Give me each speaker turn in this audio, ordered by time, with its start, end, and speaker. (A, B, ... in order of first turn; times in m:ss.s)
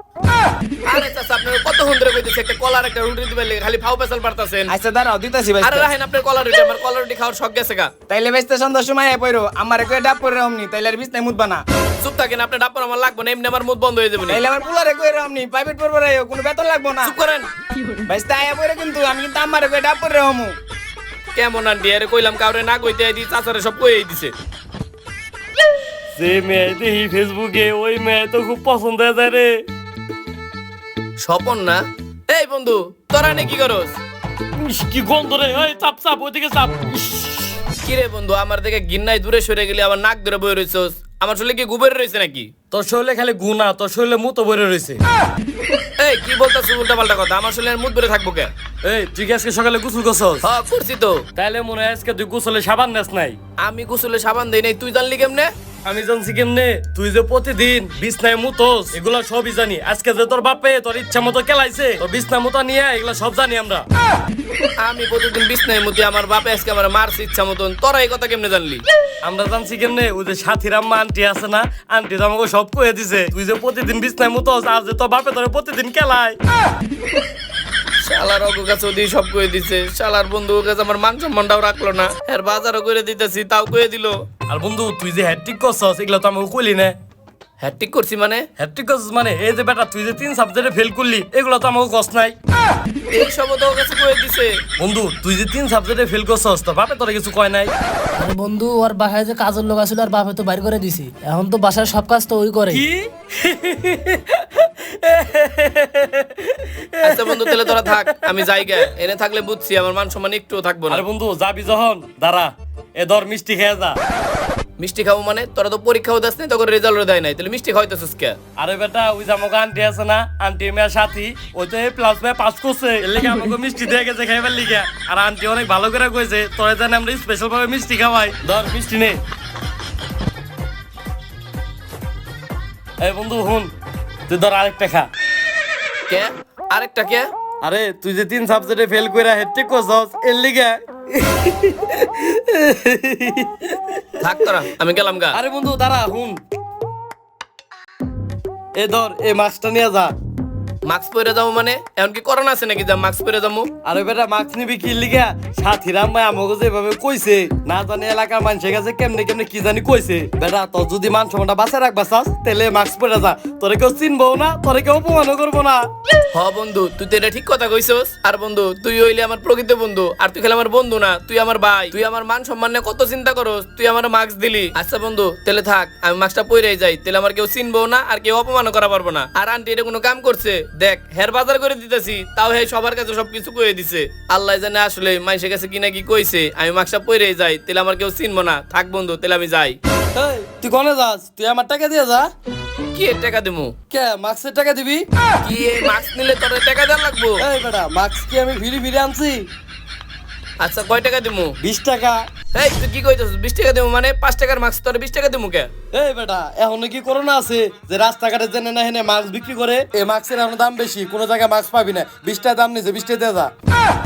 0:00.9-0:04.7 A
0:04.7-0:05.9 B
0:05.6-0:07.9 A
0:08.1-0:11.6 B
0:12.0-0:14.4 A
0:14.3-0:17.2 B
0:17.0-0:17.5 A
0:18.1-0:20.5 B
0:21.4-0:24.3 A
0:26.1-0:29.5 C
0:31.2-0:31.8 A
0:32.3-0:34.0 A
0:34.6-0:37.6 C
0:37.8-0:42.5 A
0:42.7-0:45.0 C
0:46.0-0:48.5 A
0:48.8-0:50.5 C
0:50.4-0:51.2 A
0:51.4-0:53.4 C
0:53.6-0:55.5 A
0:55.8-1:03.8 C
1:04.8-1:08.8 A
1:09.2-1:16.4 C
1:18.0-1:24.1 A
1:24.5-1:27.0 C
1:27.6-1:28.5 A
1:28.6-1:32.3 C
1:33.1-1:34.6 A
1:34.8-1:37.7 C
1:38.2-1:42.8 D
1:42.7-1:48.7 C
1:47.0-1:51.0 A
1:50.9-1:54.0 C
1:54.8-1:58.4 A
1:58.6-2:09.2 C
2:13.0-2:13.7 C
2:14.3-2:15.1 C
2:16.1-2:17.3 A
2:17.6-2:24.3 C
2:24.2-2:25.4 A
2:25.3-2:26.4 C
2:28.8-2:30.1 C
2:30.9-2:33.7 A
2:33.8-2:45.8 C
2:46.3-3:09.8 A
3:10.1-3:12.3 C
3:12.9-3:13.7 A
3:13.9-3:15.0 C
3:15.4-3:17.4 A
3:17.4-3:19.4 C
3:20.6-3:21.5 A
3:21.6-3:22.2 C
3:22.5-3:25.7 A
3:25.9-3:33.5 C